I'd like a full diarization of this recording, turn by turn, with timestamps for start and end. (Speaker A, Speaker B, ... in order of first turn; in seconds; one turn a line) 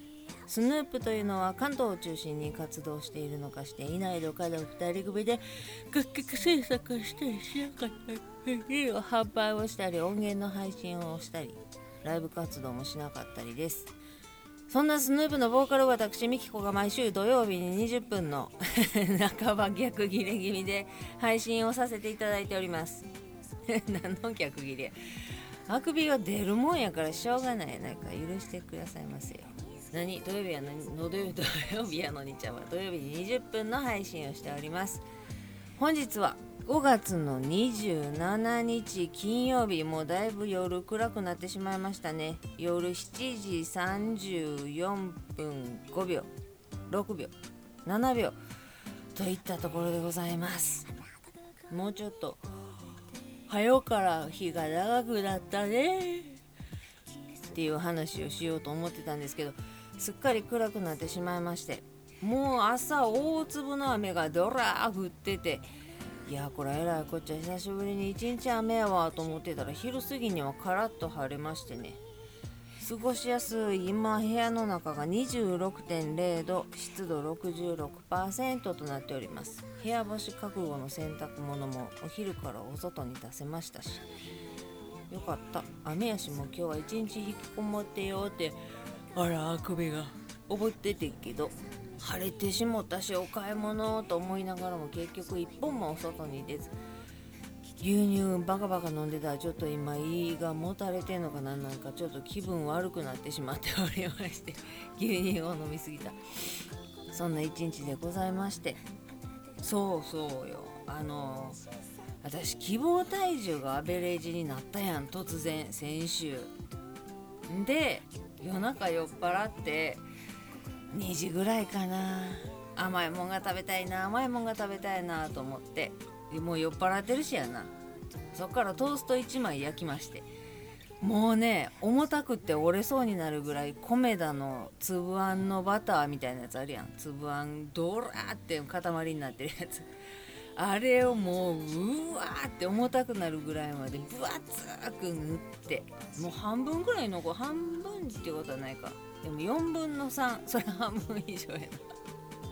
Speaker A: 0.5-13.9
Speaker A: 14.7-23.1
Speaker A: 23.7-25.0
Speaker A: 25.7-35.0
Speaker A: 35.8-46.3
Speaker A: 46.9-47.3
Speaker A: 47.8-48.4
Speaker A: 49.1-50.9
Speaker A: 51.7-52.4
Speaker A: 53.5-56.4
Speaker A: 57.5-65.7
Speaker A: 66.2-72.0
Speaker A: 72.8-84.0
Speaker A: 85.1-88.6
Speaker A: 89.1-96.8
Speaker A: 97.8-106.2
Speaker A: 107.1-108.8
Speaker A: 109.6-111.6
Speaker A: 112.2-116.5
Speaker A: 117.5-120.0
Speaker A: 120.9-127.7
Speaker A: 128.3-130.3
Speaker A: 131.0-139.9
Speaker A: 140.6-151.9